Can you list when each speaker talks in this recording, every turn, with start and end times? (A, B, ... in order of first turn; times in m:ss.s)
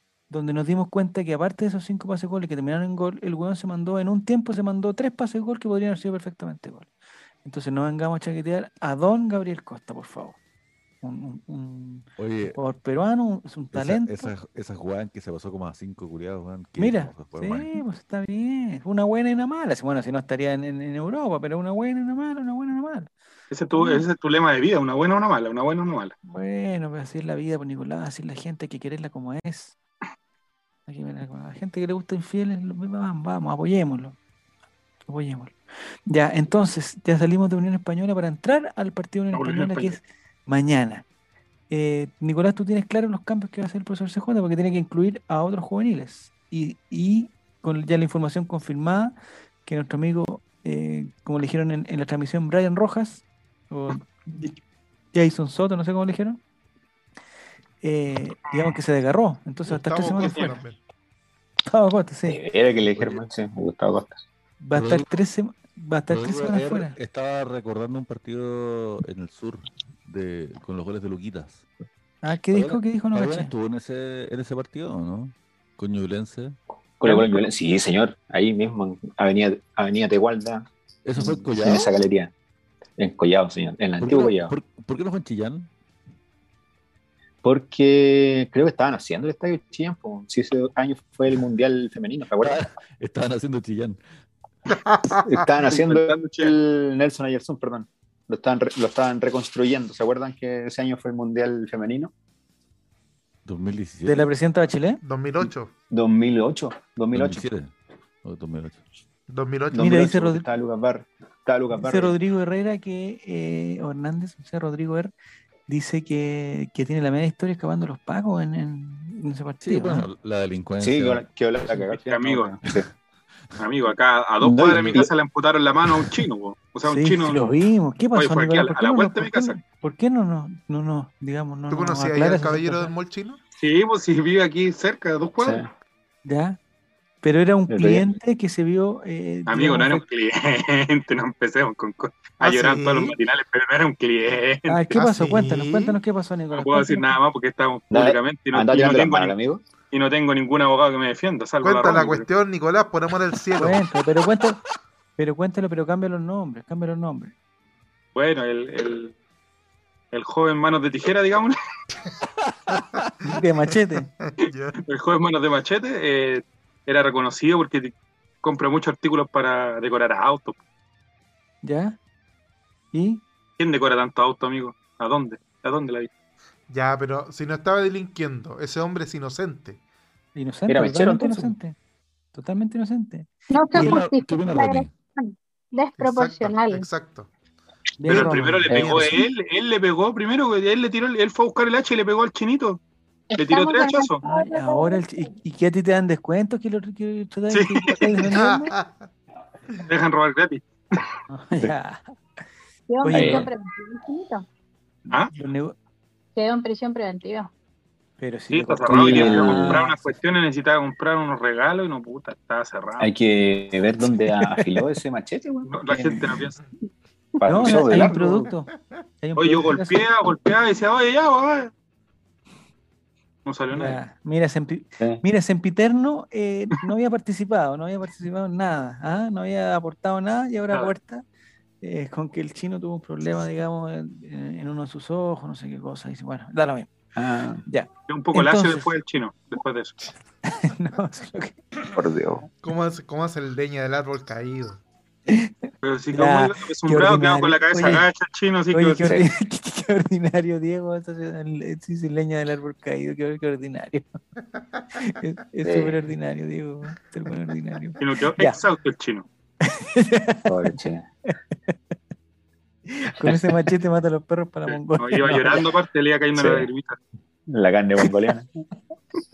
0:00.3-0:06.9 A
0:07.4-0:10.4 A
0:11.0-0:14.3 A
0:12.2-0:12.6 B
0:13.7-0:17.7 B
0:16.8-0:23.1 A
0:23.5-0:26.1 C
0:23.7-0:24.0 A
0:26.3-0:29.8 A
0:30.9-0:34.2 A
0:35.1-0:35.6 A
0:36.1-0:41.0 A
0:39.3-0:40.0 C
0:41.7-0:54.6 A
0:55.1-0:56.4 A
0:57.8-1:00.6 A
0:59.7-1:00.8 D
1:00.2-1:00.5 C
1:01.7-1:02.4 A
1:02.3-1:04.2 E
1:02.9-1:03.2 B
1:04.6-1:07.0 A
1:04.7-1:05.1 B
1:06.1-1:11.6 B
1:12.2-1:13.5 A
1:12.5-1:16.6 B
1:17.0-1:22.3 E
1:17.0-1:17.4 A
1:21.0-1:21.9 B
1:23.0-1:24.5 E
1:24.0-1:25.7 B
1:27.4-1:32.6 E
1:32.4-1:34.0 B
1:35.2-1:42.1 E
1:35.6-1:36.6 C
1:43.4-1:44.3 B
1:44.1-1:45.0 A
1:45.0-1:45.7 D
1:45.9-1:47.4 E
1:47.1-1:47.7 B
1:48.2-1:48.8 B
1:49.3-1:49.9 D
1:49.7-1:52.2 E
1:49.8-1:50.4 A
1:51.7-1:55.1 A
1:55.7-2:00.1 A
1:59.6-2:01.2 B
2:00.8-2:02.9 E
2:02.1-2:02.5 C
2:03.6-2:07.4 C
2:04.4-2:05.1 E
2:06.9-2:12.9 A
2:08.1-2:09.6 C
2:11.7-2:13.4 D
2:13.6-2:15.6 C
2:15.4-2:15.7 E
2:16.2-2:16.6 A
2:17.2-2:20.0 A
2:17.7-2:18.2 E
2:19.5-2:24.8 C
2:22.4-2:23.2 D
2:24.7-2:27.2 A
2:24.9-2:26.0 D
2:26.5-2:29.4 C
2:27.9-2:29.6 E
2:29.9-2:32.3 C
2:31.6-2:33.9 D
2:33.6-2:34.6 A
2:35.2-2:37.3 A
2:38.2-2:39.1 C
2:40.1-2:41.6 C
2:43.2-2:44.1 A
2:44.2-2:44.8 D
2:44.9-2:50.6 C
2:51.6-2:52.0 A
2:52.9-2:53.2 A
2:53.6-2:56.1 C
2:56.7-2:59.8 D
3:00.4-3:01.8 A
3:00.7-3:01.6 E
3:02.3-3:04.0 A
3:03.5-3:06.9 F
3:03.7-3:04.9 B
3:06.0-3:07.3 D
3:08.0-3:09.0 A
3:08.0-3:12.8 C
3:08.1-3:09.2 D
3:08.7-3:09.1 E
3:13.3-3:15.0 F
3:13.4-3:14.2 C
3:14.2-3:18.7 A
3:17.5-3:18.3 C
3:18.3-3:19.0 D
3:19.9-3:21.0 C
3:21.3-3:22.1 A
3:22.9-3:24.4 F
3:23.0-3:23.5 A
3:23.1-3:23.5 E
3:25.1-3:25.8 A
3:26.4-3:27.5 F
3:28.2-3:30.2 A
3:28.5-3:33.1 C
3:28.9-3:29.9 E
3:33.0-3:36.2 E
3:34.5-3:34.8 A
3:35.7-3:36.6 C
3:36.0-3:36.4 A
3:37.4-3:38.5 E
3:37.5-3:38.7 A
3:39.2-3:40.1 A
3:39.4-3:41.7 C
3:43.5-3:44.0 C
3:43.7-3:51.2 A
3:51.8-3:56.9 A
3:57.2-3:57.6 E
3:57.7-3:58.9 A
3:58.1-4:00.0 C
4:00.4-4:01.6 A
4:01.9-4:02.5 E
4:02.6-4:04.8 D
4:05.3-4:08.1 A
4:05.8-4:09.1 C
4:08.7-4:14.2 A
4:09.0-4:09.3 E
4:15.0-4:18.6 A
4:15.6-4:16.0 E
4:18.0-4:19.3 C
4:19.6-4:20.6 A
4:20.5-4:21.1 E
4:21.3-4:21.8 A
4:22.9-4:25.6 A
4:23.2-4:23.7 E
4:24.7-4:27.0 C
4:26.4-4:26.7 E
4:27.5-4:28.5 E